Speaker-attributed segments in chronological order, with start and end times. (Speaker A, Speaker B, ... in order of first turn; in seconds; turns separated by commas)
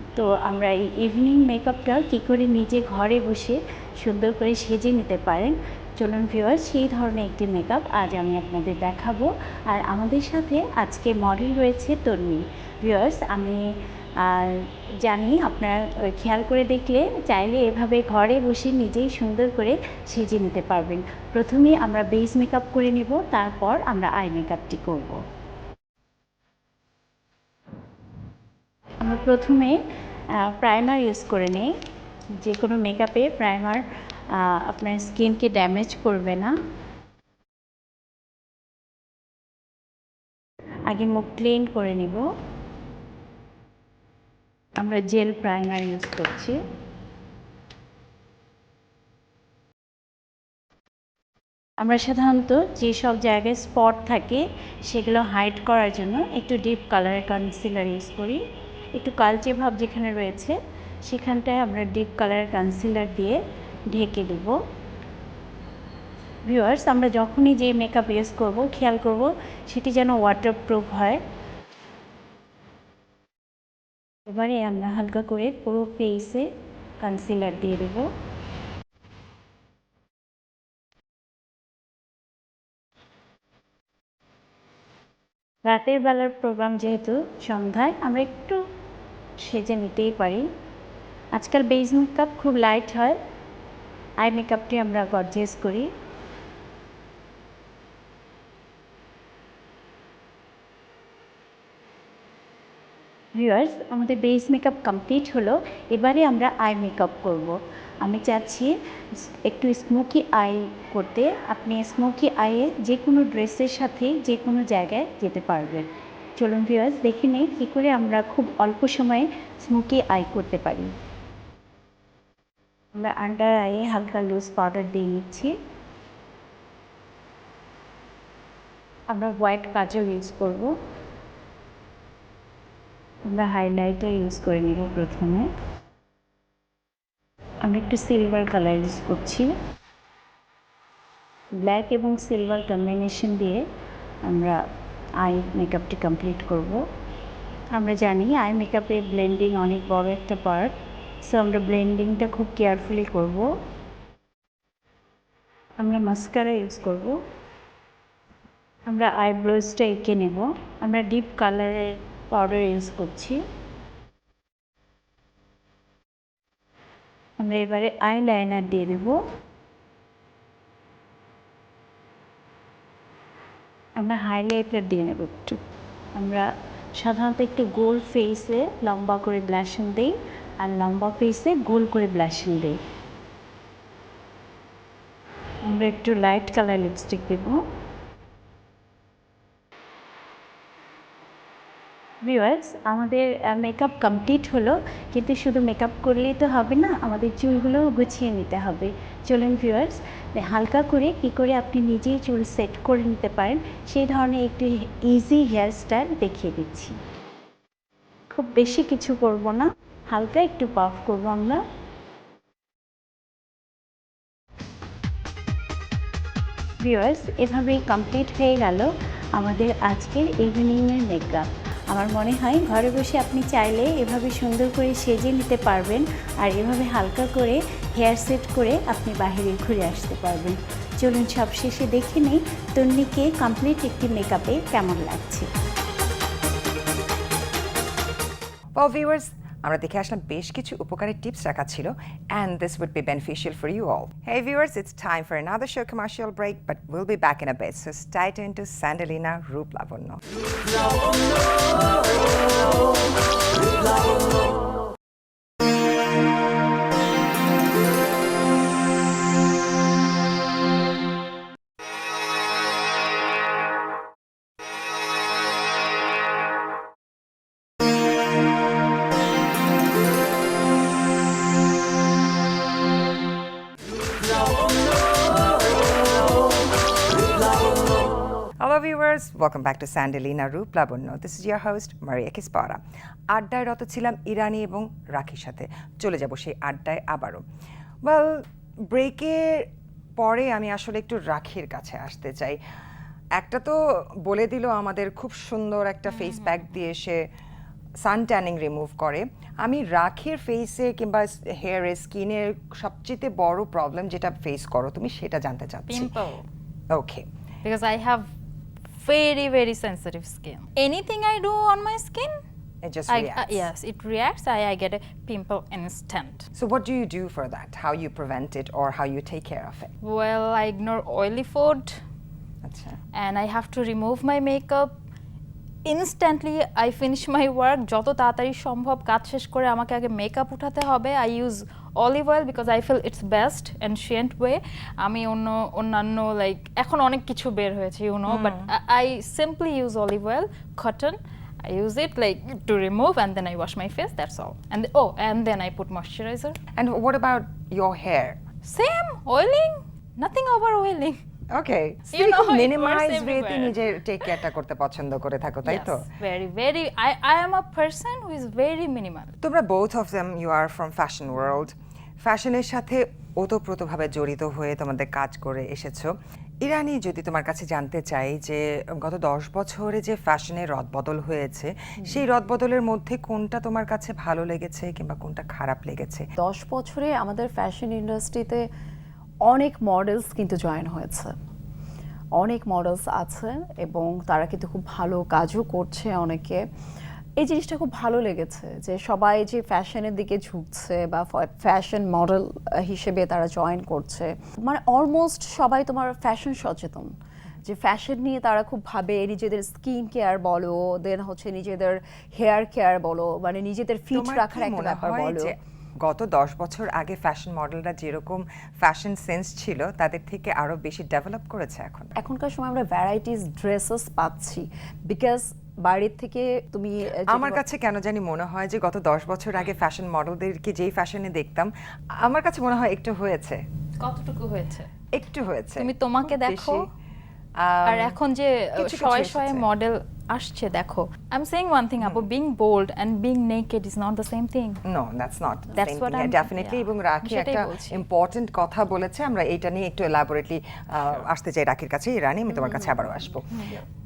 Speaker A: 0.1-13.6, Speaker A: 14.2-25.2, Speaker A: 29.0-31.7, Speaker A: 32.4-36.5, Speaker A: 40.9-42.2, Speaker A: 44.8-46.6, Speaker A: 51.8-58.4, Speaker A: 58.9-63.4, Speaker A: 63.9-64.5, Speaker A: 66.5-71.2, Speaker A: 74.3-76.5, Speaker A: 77.0-78.1, Speaker A: 85.6-88.6, Speaker A: 89.4-90.5, Speaker A: 91.3-93.2, Speaker A: 94.2-95.9, Speaker A: 103.3-120.9, Speaker A: 122.9-125.5, Speaker A: 129.1-130.7, Speaker A: 133.3-135.5, Speaker A: 137.6-139.5, Speaker A: 141.5-143.6, Speaker A: 144.2-144.6, Speaker A: 145.2-146.8, Speaker A: 147.7-150.7, Speaker A: 151.2-153.5, Speaker A: 155.8-157.2, Speaker A: 158.9-163.4, Speaker A: 167.4-169.2, Speaker A: 174.0-175.6, Speaker A: 176.1-182.8, Speaker A: 185.7-187.6, Speaker A: 192.2-207.0, Speaker A: 208.3-211.6, Speaker A: 216.8-235.5, Speaker B: 238.8-250.2, Speaker B: 278.6-282.8, Speaker B: 283.3-287.4, Speaker B: 288.1-288.4, Speaker B: 288.9-289.6, Speaker B: 290.2-292.6, Speaker B: 293.4-297.2, Speaker C: 296.1-296.7, Speaker B: 298.0-306.1, Speaker C: 305.9-306.4, Speaker B: 306.9-307.2, Speaker C: 307.6-308.3, Speaker C: 308.9-312.3, Speaker B: 312.8-313.7, Speaker C: 313.1-316.5, Speaker B: 316.6-319.9, Speaker C: 320.0-322.0, Speaker B: 322.6-323.0, Speaker C: 323.1-324.9, Speaker C: 325.8-346.6, Speaker B: 338.3-338.7, Speaker B: 346.8-348.4, Speaker C: 348.6-351.2, Speaker B: 351.5-356.0, Speaker C: 352.1-353.8, Speaker C: 355.6-359.3, Speaker B: 359.4-366.1, Speaker B: 366.6-376.2, Speaker D: 376.4-378.6, Speaker D: 379.5-381.3, Speaker D: 382.4-386.6, Speaker D: 387.4-397.1, Speaker D: 397.6-405.5, Speaker B: 404.1-412.2, Speaker D: 412.2-417.6, Speaker B: 417.3-421.7, Speaker B: 422.2-423.6, Speaker C: 424.0-424.9, Speaker B: 425.1-426.9, Speaker C: 425.8-426.9, Speaker B: 427.6-428.2, Speaker C: 427.9-434.8, Speaker B: 428.8-429.6, Speaker B: 432.0-432.2, Speaker B: 434.9-443.6, Speaker C: 435.7-438.0, Speaker C: 442.5-443.8